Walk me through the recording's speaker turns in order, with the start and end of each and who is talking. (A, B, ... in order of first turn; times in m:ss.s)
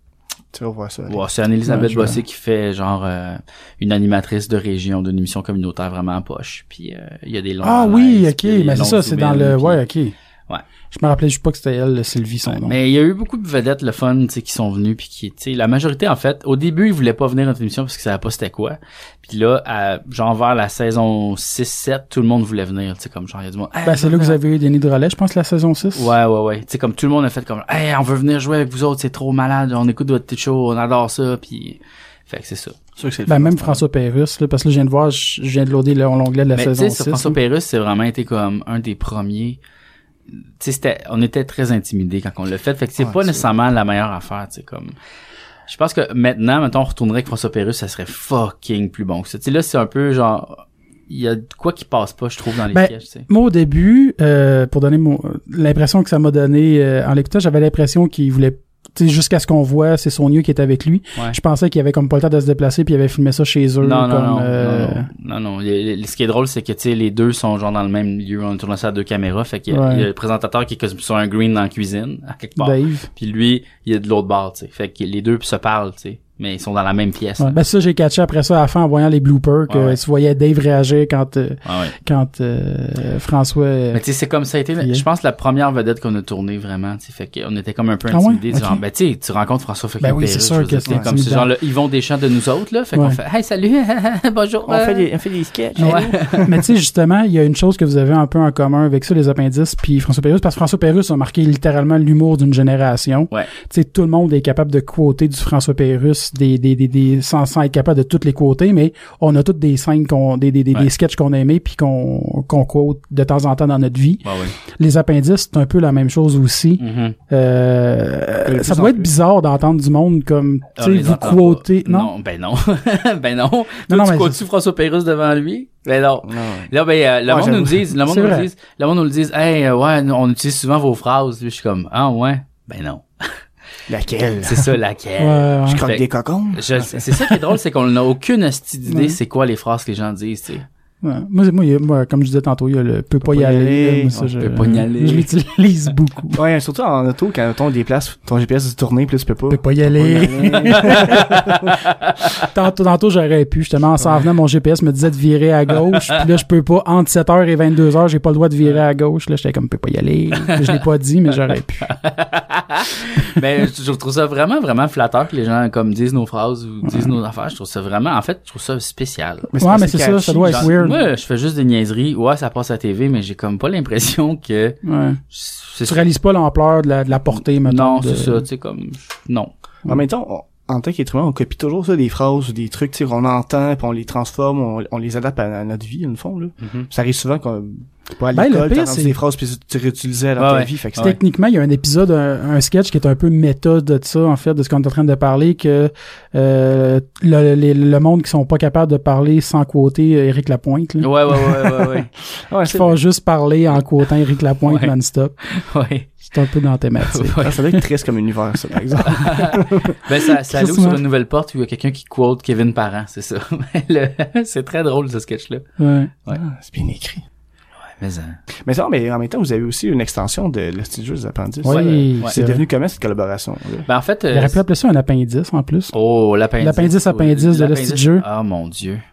0:00.5-0:01.2 A
0:01.1-0:09.8 B
0:01.6-0:02.2 C
0:07.6-0:10.1 C
0:10.9-0:12.7 C
0:12.5-0:24.4 B
0:23.8-0:26.1 C
0:26.0-0:32.8 B
0:33.0-0:33.8 A
0:33.3-0:37.4 C
0:36.5-0:39.6 B
0:40.3-0:45.0 B
0:43.0-0:43.4 A
0:45.7-0:53.3 B
0:52.7-1:05.1 C
1:03.8-1:17.6 B
1:09.7-1:10.1 C
1:12.6-1:13.1 C
1:17.4-1:24.0 C
1:19.7-1:20.0 B
1:21.6-1:22.0 B
1:23.9-1:35.1 B
1:28.1-1:28.8 C
1:30.0-1:31.5 C
1:34.7-1:36.6 A
1:35.8-1:36.5 B
1:35.8-2:02.1 C
1:54.2-1:54.5 B
1:56.8-1:57.2 B
1:58.4-1:59.1 A
2:00.8-2:13.3 B
2:03.9-2:04.4 C
2:06.2-2:06.7 A
2:07.2-2:07.8 A
2:08.0-2:08.5 C
2:13.9-2:14.7 A
2:14.4-2:20.6 B
2:15.2-2:15.8 C
2:15.7-2:17.4 A
2:18.9-2:19.2 C
2:21.0-2:26.4 C
2:23.2-2:24.3 A
2:24.4-2:25.3 B
2:26.3-2:31.7 A
2:29.5-2:31.4 C
2:30.9-2:32.3 B
2:32.5-2:41.9 C
2:41.8-2:49.5 B
2:46.8-2:47.1 C
2:49.5-2:50.7 A
2:49.6-2:51.0 C
2:50.4-2:54.8 B
2:54.8-2:55.2 C
2:55.3-2:56.1 B
2:55.8-2:58.4 C
2:57.3-2:59.5 B
2:59.9-3:11.1 A
3:06.6-3:06.9 B
3:08.3-3:09.1 C
3:10.4-3:11.2 B
3:11.0-3:21.8 C
3:21.0-3:22.1 B
3:22.5-3:23.0 A
3:22.7-3:25.4 C
3:24.6-3:24.9 B
3:25.4-3:26.2 B
3:26.2-3:27.5 C
3:27.0-3:27.7 B
3:27.4-3:30.0 A
3:29.0-3:35.6 B
3:30.5-3:31.0 C
3:35.8-3:36.1 C
3:36.3-3:37.2 A
3:38.0-3:38.4 B
3:38.6-3:43.9 A
3:41.6-3:42.6 C
3:41.6-3:42.3 B
3:43.9-3:44.6 B
3:44.3-3:45.9 C
3:45.9-3:49.0 B
3:46.6-3:48.2 C